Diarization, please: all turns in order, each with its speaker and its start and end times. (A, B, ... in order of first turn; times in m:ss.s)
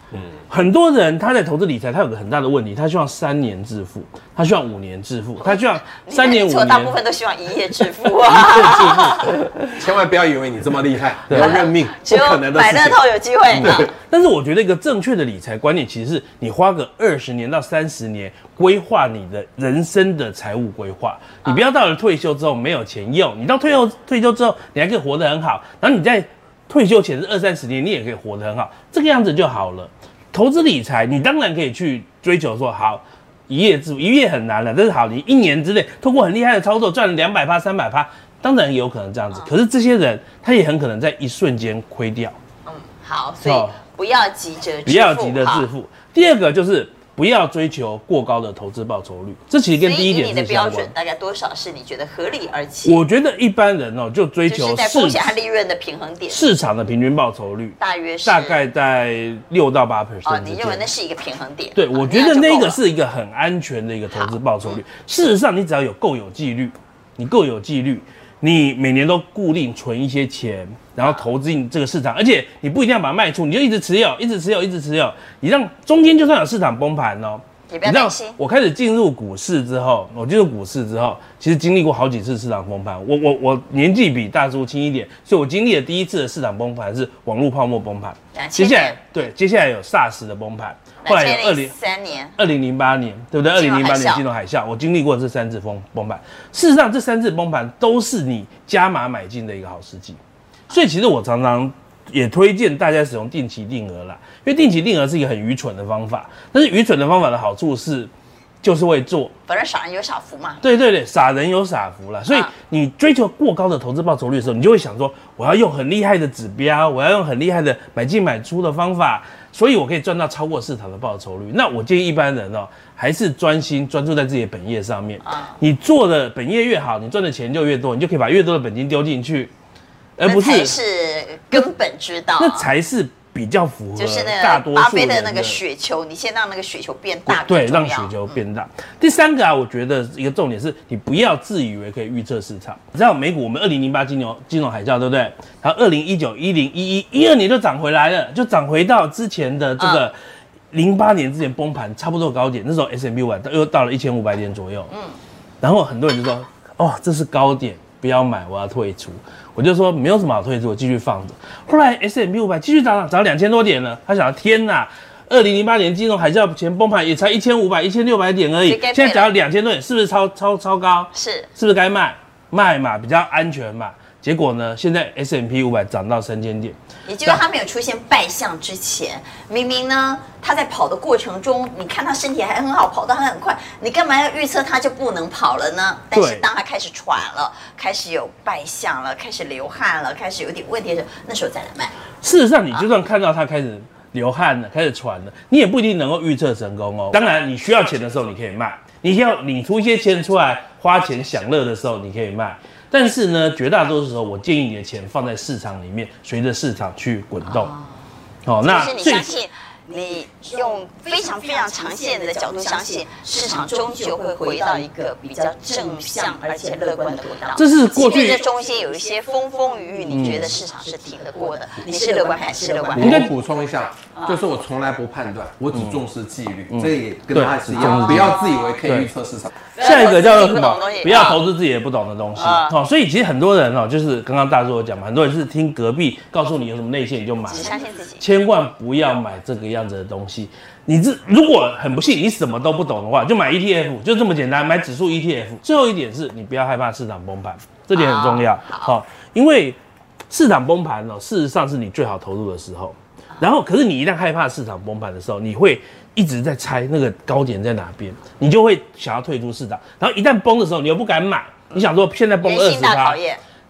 0:00.5-0:07.0 A
0:05.4-0:09.4 B
0:08.2-0:09.7 A
0:08.4-0:13.0 C
0:11.3-0:11.6 A
0:11.3-0:13.9 B
0:13.5-0:42.4 A
0:42.7-0:45.7 B
0:43.4-0:43.7 A
0:44.8-0:50.9 A
0:49.8-0:53.0 B
0:52.8-0:55.4 A
0:54.5-0:56.5 B
0:56.3-1:00.9 A
0:57.8-0:58.6 B
1:00.2-1:02.8 B
1:01.8-1:31.7 A
1:04.1-1:04.8 B
1:17.7-1:18.4 B
1:28.3-1:29.0 B
1:31.0-1:32.3 B
1:32.4-1:40.2 A
1:33.5-1:34.2 B
1:40.7-1:48.1 A
1:48.6-1:49.3 A
1:49.5-1:50.6 B
1:50.6-2:09.5 A
2:05.2-2:05.6 B
2:10.2-2:10.8 A
2:10.2-2:12.6 B
2:12.4-2:15.6 A
2:14.0-2:18.2 B
2:17.3-2:30.1 A
2:29.8-2:30.1 B
2:30.7-2:34.9 A
2:34.9-2:35.2 B
2:35.6-2:57.4 A
2:48.6-2:49.3 B
2:51.1-2:51.5 B
2:57.1-3:12.0 B
3:06.1-3:06.4 A
3:12.2-3:27.7 A
3:27.4-3:27.9 B
3:28.4-3:29.3 A
3:28.6-3:43.2 B
3:37.6-3:38.4 A
3:40.1-3:40.6 A
3:42.9-3:49.5 C
3:43.0-3:43.3 A
3:46.7-3:49.1 A
3:49.8-3:51.4 B
3:49.8-4:09.8 A
3:52.4-3:52.7 B
3:57.4-3:58.2 B
4:07.9-4:08.9 B
4:10.3-4:23.2 A
4:22.4-4:23.4 B